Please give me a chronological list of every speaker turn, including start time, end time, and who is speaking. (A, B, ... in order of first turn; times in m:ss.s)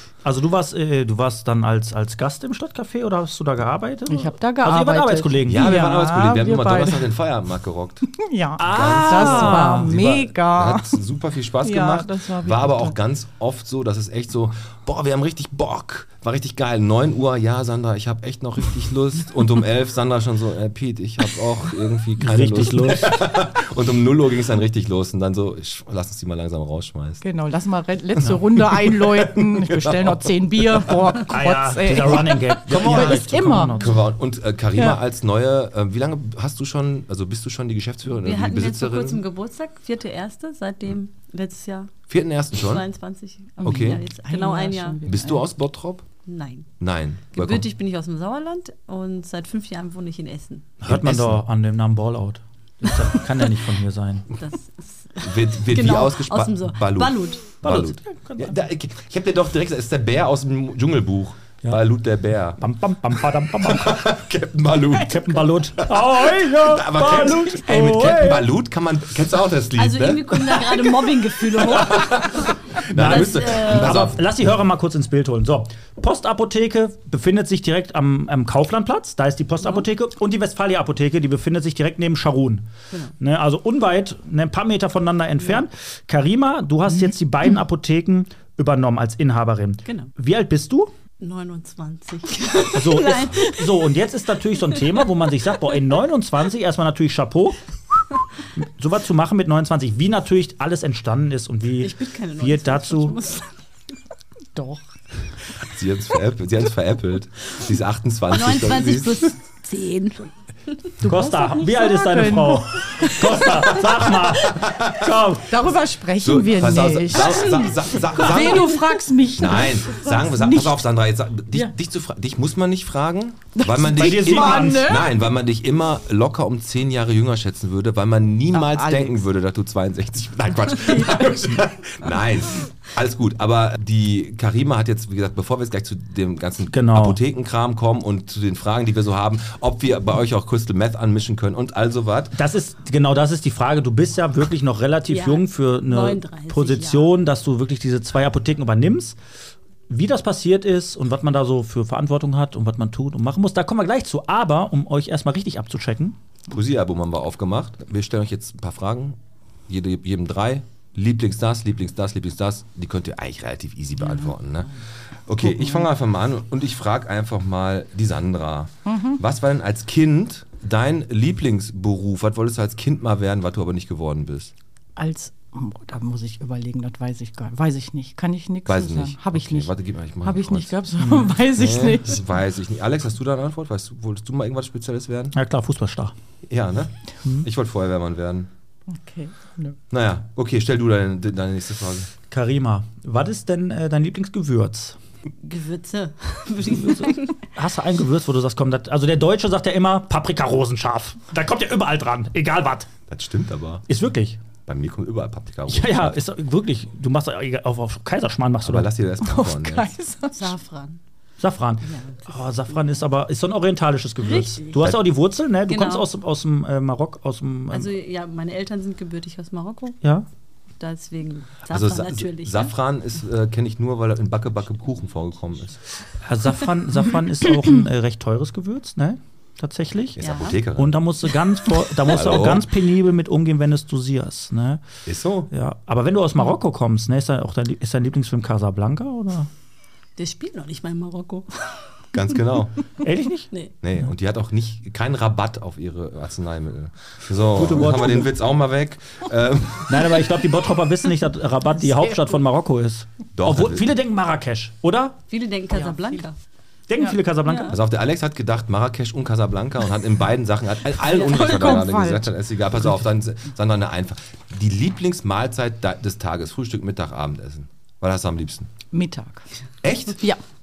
0:00.2-0:05.8 A
0:04.1-0:07.1 B
0:05.5-0:27.2 C
0:08.2-0:11.0 B
0:08.6-0:10.0 A
0:11.6-0:13.0 B
0:22.2-0:23.3 A
0:27.2-0:33.8 B
0:28.6-0:31.2 C
0:31.2-0:34.0 A
0:32.7-0:39.2 C
0:38.2-0:41.9 D
0:42.1-0:42.8 C
0:42.6-0:45.0 D
0:43.6-0:45.4 B
0:43.6-0:44.0 C
0:45.0-0:46.1 C
0:46.3-0:46.7 D
0:46.8-0:47.7 C
0:47.3-0:50.7 D
0:50.8-0:54.3 A
0:50.8-0:51.4 C
0:54.4-0:57.6 D
0:55.2-1:02.6 C
0:57.6-0:58.6 A
1:02.6-1:04.1 A
1:03.6-1:14.4 C
1:04.9-1:08.5 A
1:09.8-1:14.1 D
1:12.9-1:22.7 A
1:23.2-1:30.9 A
1:29.9-1:30.1 D
1:31.2-1:33.8 D
1:32.7-1:38.0 A
1:38.6-1:43.2 A
1:41.8-1:43.5 D
1:44.6-1:44.8 B
1:45.6-1:49.4 C
1:48.3-1:50.9 D
1:51.0-1:53.7 B
1:51.0-1:55.5 A
1:54.4-1:55.1 C
1:55.4-2:00.8 B
1:56.2-1:58.8 C
1:57.2-1:57.7 D
1:59.4-2:22.4 C
2:03.6-2:05.1 B
2:03.9-2:05.0 A
2:08.6-2:09.2 B
2:16.7-2:17.2 A
2:22.4-2:29.2 A
2:25.1-2:27.1 D
2:29.9-2:36.2 A
2:36.5-2:54.5 C
2:45.5-2:45.9 B
2:48.9-2:49.2 B
2:55.0-2:59.7 B
2:58.7-3:00.8 C
3:00.2-3:02.2 B
3:01.4-3:05.4 C
3:05.3-3:06.1 A
3:06.5-3:08.5 C
3:08.9-3:09.8 B
3:09.9-3:12.1 C
3:12.3-3:15.0 A
3:15.4-3:17.4 D
3:16.6-3:22.9 A
3:23.1-3:23.9 C
3:23.9-3:24.4 A
3:24.7-3:26.2 C
3:25.7-3:28.9 A
3:28.6-3:29.9 C
3:29.2-3:30.6 B
3:30.3-3:31.0 D
3:31.4-3:37.9 A
3:31.8-3:32.4 D
3:34.2-3:34.9 D
3:35.7-3:36.1 D
3:37.7-3:40.0 D
3:40.8-3:42.7 D
3:41.7-3:45.8 C
3:46.2-3:50.2 A
3:50.2-3:51.0 C
3:50.2-3:50.6 D
3:50.7-3:54.8 A
3:52.0-3:52.7 C
3:55.1-3:55.5 C
3:55.5-3:59.5 A
4:00.2-4:01.8 D
4:02.1-4:02.8 C
4:03.0-4:03.5 A
4:03.8-4:10.2 C
4:07.5-4:08.3 A
4:09.9-4:15.2 A
4:13.4-4:13.9 C
4:15.3-4:16.4 D
4:15.7-4:16.2 B
4:16.9-4:17.8 A
4:17.5-4:17.7 D
4:17.7-4:28.7 C
4:21.1-4:22.3 B
4:21.1-4:21.7 D
4:28.9-4:29.4 B
4:29.8-4:30.3 C